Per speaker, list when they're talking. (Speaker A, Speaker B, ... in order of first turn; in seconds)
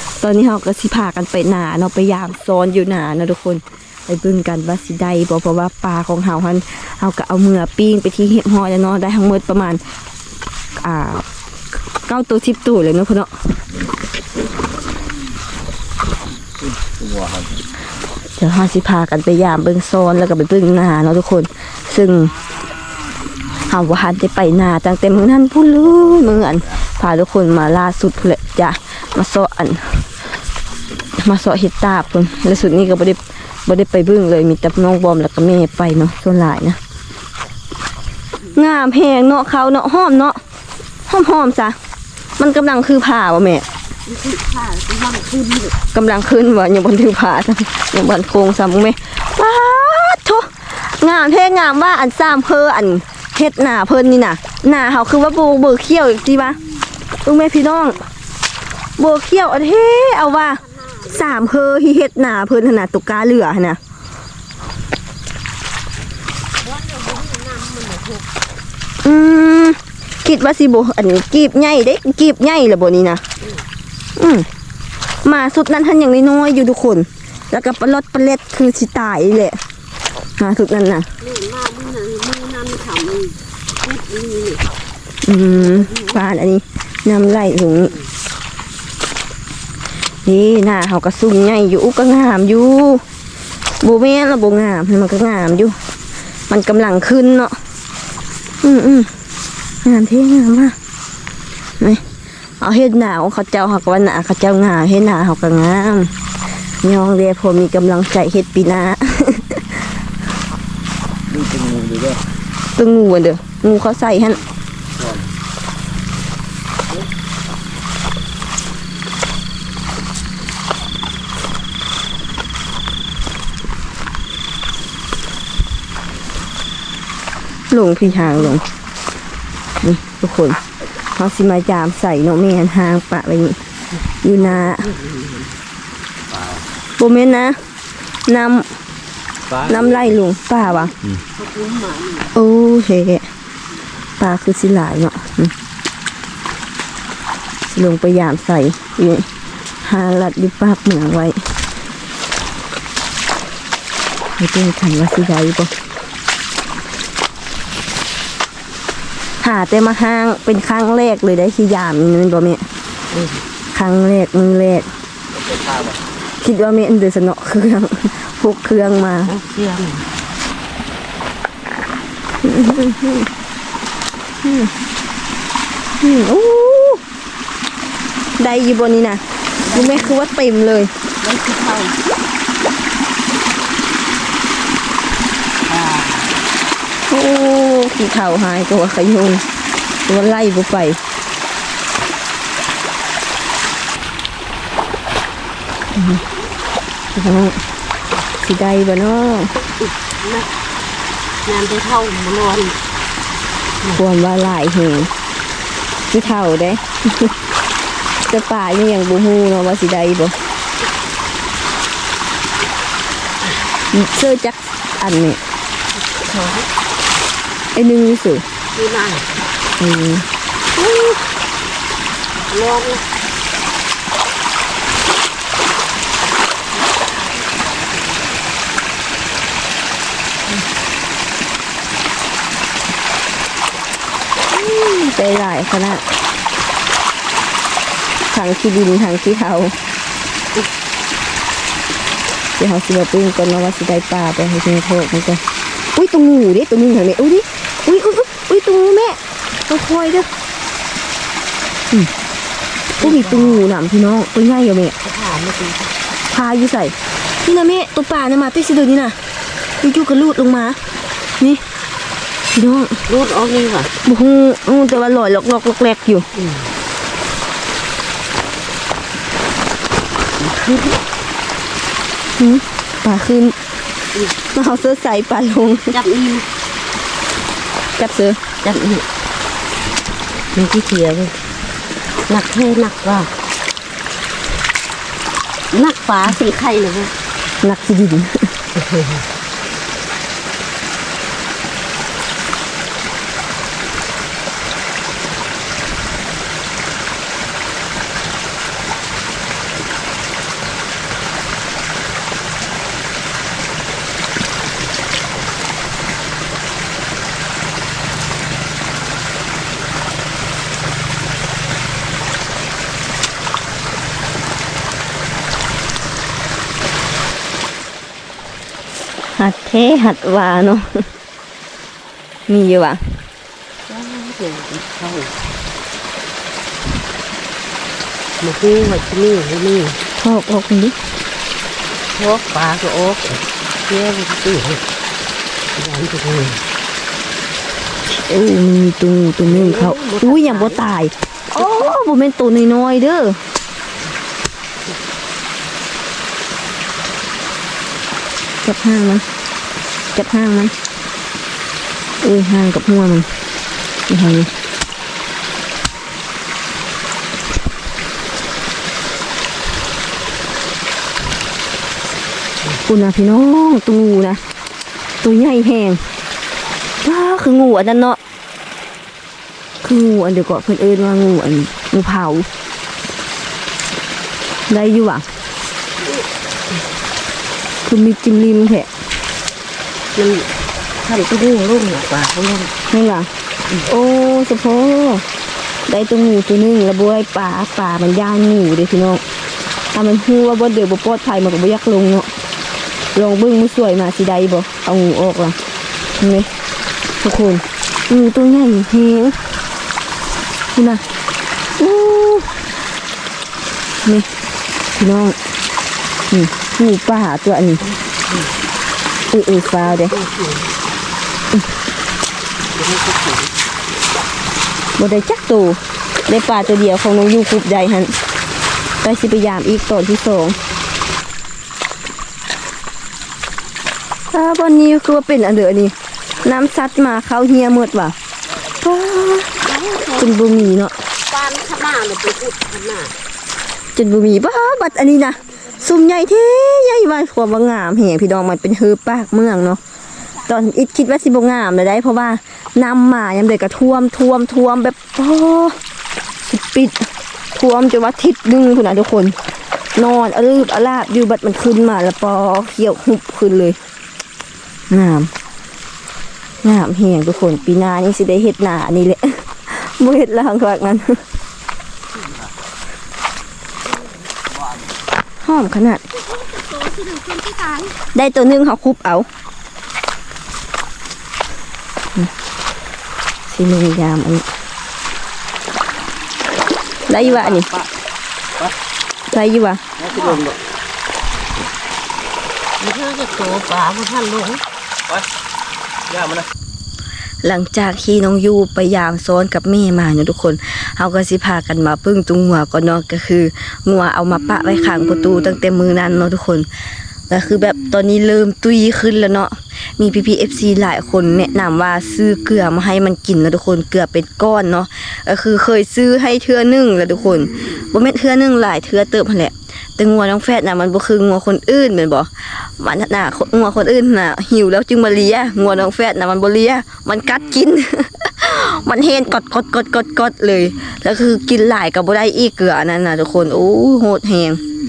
Speaker A: 0.2-9.8, 10.8-11.3, 12.1-13.3, 18.4-22.3, 23.7-30.1, 31.2-36.8, 38.5-40.4, 41.1-41.8, 42.4-43.7, 45.9-56.6, 57.2-58.0, 59.0-63.8, 69.0-73.2, 74.2-74.5, 75.2-79.6, 80.4-81.1, 85.2-88.0, 90.2-93.0, 93.8-95.8, 96.5-97.6, 98.6-99.1, 99.8-100.8, 102.6-106.1, 106.8-109.8, 112.8-114.4, 127.7-128.7, 129.8-130.6, 131.2-133.6, 134.2-134.9, 137.0-137.6, 138.3-138.7, 139.6-140.9, 142.3-143.3, 144.2-145.5, 147.7-149.3, 149.8-151.5, 154.4-155.7, 159.4-162.7, 163.7-164.9, 166.4-169.3, 172.4-173.3, 174.4-174.7, 176.0-177.0, 178.4-180.9, 187.1-189.4, 190.1-191.0, 195.9-196.2, 197.2-197.6, 198.4-199.5, 203.9-205.1, 206.1-207.3, 208.3-210.3, 213.9-215.4, 217.7-218.4, 219.8-220.3, 234.5-236.0, 238.3-239.8, 242.6-245.4, 245.9-250.3, 253.0-254.9, 256.3-259.2, 259.8-260.8, 262.5-263.0, 264.0-266.3, 272.4-273.6, 274.5-275.9, 278.0-278.4, 287.6-288.5, 319.4-321.1, 322.5-323.2, 330.2-331.0, 338.1-343.4, 348.6-349.2, 350.1-350.7, 352.2-353.3, 354.1-354.5, 362.8-364.4, 365.2-366.1, 367.0-368.2, 369.8-372.5, 374.7-375.3, 377.9-378.9, 382.9-385.2, 385.9-389.2, 389.9-392.3, 393.1-395.6, 396.2-396.5, 397.2-399.4, 400.8-401.0, 401.8-402.5, 404.9-405.4, 406.3-407.8, 409.3-410.2, 415.0-418.1, 419.0-420.6, 424.3-428.2, 428.7-429.6, 430.2-431.0, 433.9-439.8, 440.4-445.8, 446.4-449.4, 449.9-453.8, 454.9-455.3, 456.6-461.2, 465.4-466.0, 468.1-469.3, 473.5-474.5, 477.1-477.7, 479.3-479.8, 487.4-496.7, 497.3-524.6
Speaker B: 44.1-45.8, 66.6-68.3, 81.2-84.7, 85.6-86.2, 134.3-135.5, 140.8-142.3, 163.1-163.4, 169.3-170.1, 179.7-180.1, 181.2-182.1, 185.7-186.4, 199.8-200.5, 201.4-202.8, 216.1-216.7, 218.8-219.3, 220.9-221.1, 222.5-223.1, 253.0-253.7, 255.0-255.9, 263.1-263.9, 266.4-266.7, 270.4-271.0, 275.9-276.5, 278.6-279.1, 280.5-281.3, 282.3-283.3, 285.7-287.1, 288.9-289.2, 323.9-325.4, 328.4-330.0, 332.1-334.8, 335.8-336.6, 339.5-340.8, 380.1-382.8, 407.8-408.6, 409.9-410.8, 412.7-413.6, 429.6-430.3, 431.3-433.1, 466.4-467.9, 480.1-480.4, 482.8-484.6
Speaker C: 111.4-112.2, 136.3-136.6, 477.3-477.9, 480.0-480.6, 486.1-486.5